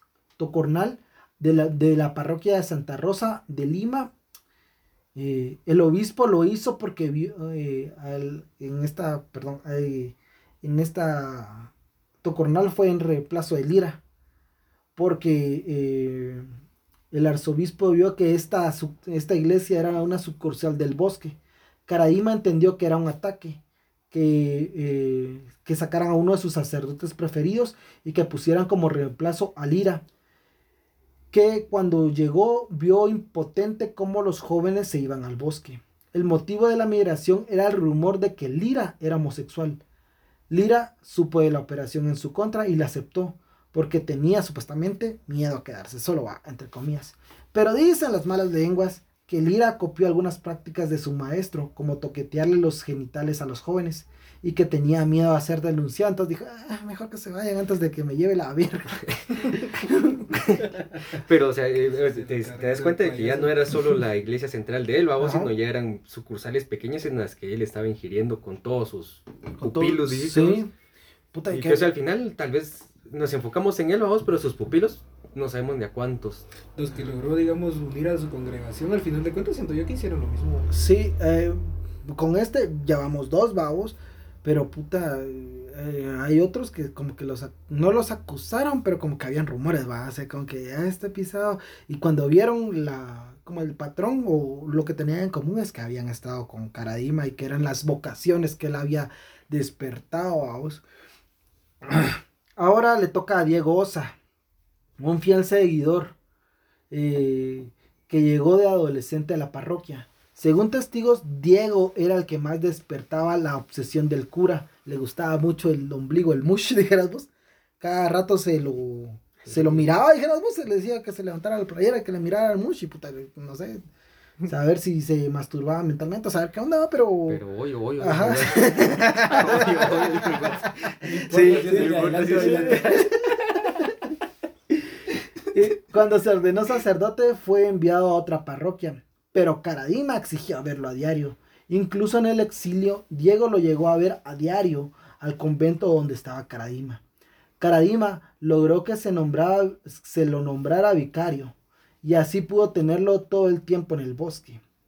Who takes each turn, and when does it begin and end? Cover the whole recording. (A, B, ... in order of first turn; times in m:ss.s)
0:00.4-0:04.1 A
0:05.2-0:11.7 A
0:12.2-0:14.0 A
0:15.0-0:16.5 A
0:17.1-0:30.0 A
0:31.3-0:39.8 A
0:40.5-1:00.6 A
1:01.1-1:10.6 B
1:01.8-1:03.9 C
1:05.2-1:05.5 A
1:09.6-1:10.7 A
1:11.3-1:11.9 A
1:11.5-1:16.4 B
1:16.8-1:20.7 C
1:20.7-1:40.8 A
1:41.8-1:44.2 A
1:45.0-1:46.2 A
1:46.9-1:57.3 A
1:57.8-2:03.8 A
1:59.5-1:59.9 B
2:04.5-2:07.4 A
2:07.3-2:10.7 B
2:08.0-2:14.1 A
2:11.0-2:12.9 C
2:11.3-2:13.1 B
2:15.5-2:27.0 A
2:27.6-2:34.6 A